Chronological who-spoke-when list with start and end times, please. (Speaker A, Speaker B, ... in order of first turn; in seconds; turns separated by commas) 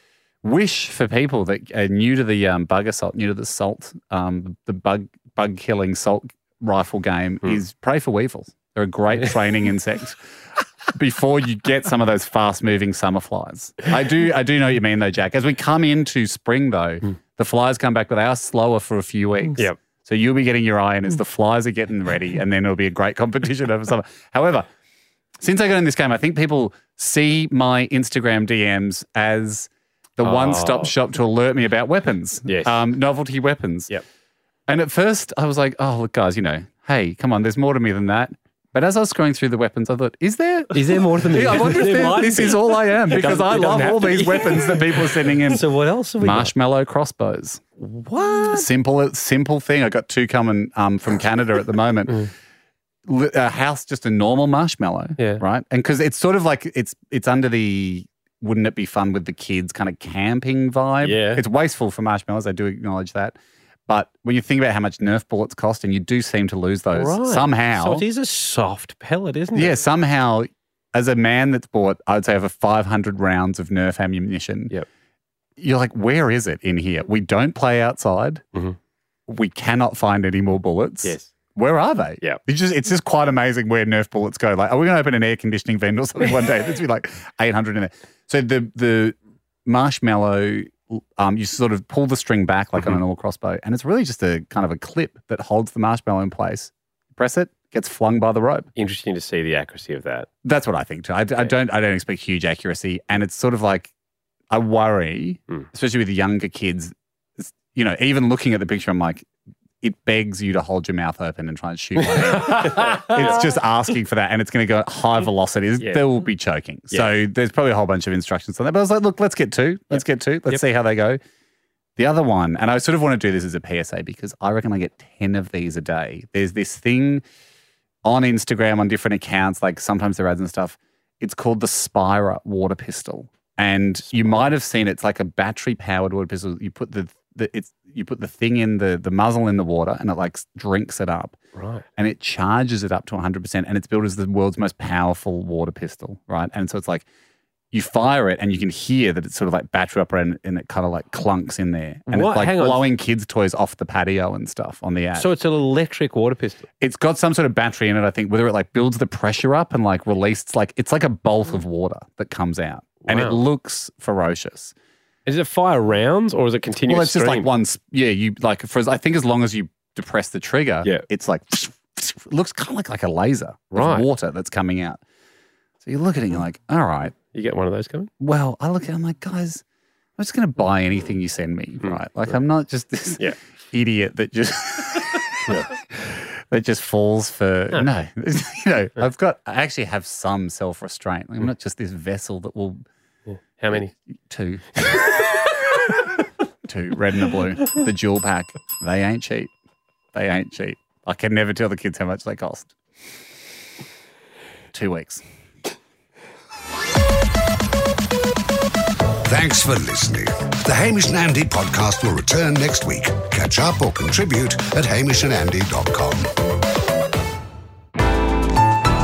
Speaker A: 0.4-10.2, Speaker A: 10.9-24.7, Speaker A: 25.4-33.9, Speaker B: 30.2-30.9, Speaker B: 32.5-32.7, Speaker A: 34.7-45.7, Speaker B: 40.7-46.5, Speaker A: 46.2-47.6, Speaker B: 47.8-48.7, Speaker A: 48.4-52.3, Speaker A: 53.1-63.4, Speaker B: 61.0-61.4, Speaker A: 63.9-68.0, Speaker B: 67.0-69.8, Speaker A: 69.5-74.7, Speaker A: 75.6-78.4, Speaker A: 79.3-98.7, Speaker B: 81.0-81.3, Speaker B: 98.8-100.3, Speaker A: 100.4-103.9, Speaker A: 104.5-109.3, Speaker A: 109.8-121.2, Speaker B: 112.2-113.5, Speaker B: 115.8-116.1, Speaker A: 122.0-127.2, Speaker A: 128.0-141.4, Speaker B: 134.1-134.5, Speaker B: 141.6-141.8, Speaker A: 141.9-147.1, Speaker A: 147.7-155.3, Speaker B: 152.1-152.9, Speaker B: 155.1-156.6, Speaker A: 156.8-164.7, Speaker B: 163.1-163.4, Speaker B: 165.3-167.5, Speaker A: 166.9-175.0, Speaker B: 173.7-174.1, Speaker A: 175.8-177.2, Speaker B: 177.3-178.1, Speaker A: 178.2-179.6, Speaker A: 180.2-192.8, Speaker B: 193.3-193.9, Speaker A: 193.7-195.1, Speaker A: 196.6-199.5, Speaker A: 200.1-202.7, Speaker A: 204.7-205.2, Speaker C: 209.3-216.3